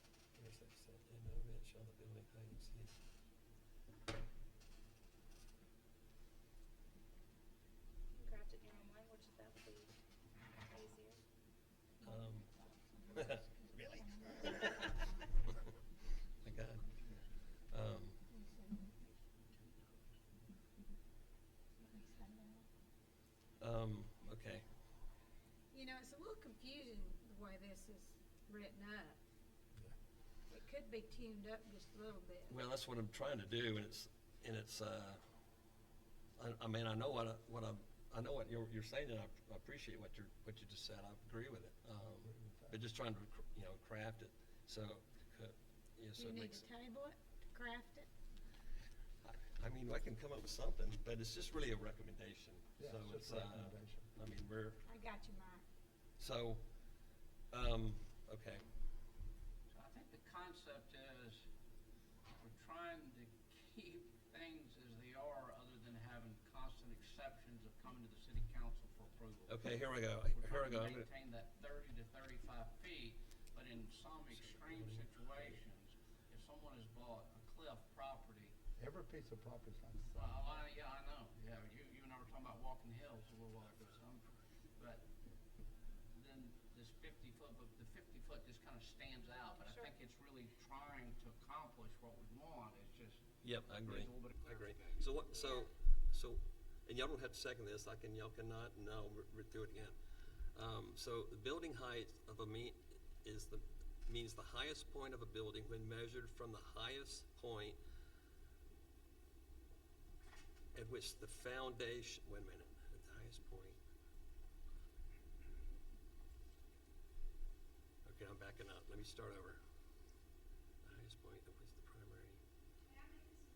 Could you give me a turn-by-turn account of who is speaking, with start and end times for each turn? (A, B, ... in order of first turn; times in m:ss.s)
0:00.4-0:03.0 A
0:08.1-0:09.9 B
0:10.7-0:11.2 B
0:12.0-0:15.2 C
0:12.0-0:12.5 A
0:13.1-0:15.1 A
0:16.4-0:17.0 A
0:17.7-0:18.2 A
0:18.3-0:19.0 C
0:21.8-0:22.7 C
0:23.6-0:24.6 A
0:25.7-0:29.2 C
0:30.5-0:32.6 C
0:32.5-0:35.2 A
0:36.4-0:46.7 A
0:42.2-0:42.8 D
0:46.1-0:48.1 C
0:49.2-0:54.8 A
0:52.8-0:54.1 D
0:54.8-0:55.6 C
0:56.2-0:56.6 A
0:57.5-0:58.6 A
0:59.7-1:01.4 E
1:02.4-1:18.6 E
1:09.5-1:11.1 A
1:14.3-1:15.0 A
1:18.8-1:20.1 D
1:20.1-1:25.1 E
1:26.1-1:35.2 E
1:33.4-1:40.0 A
1:40.5-1:47.8 A
1:50.7-1:53.8 A
1:58.0-1:59.6 A
2:00.8-2:02.4 A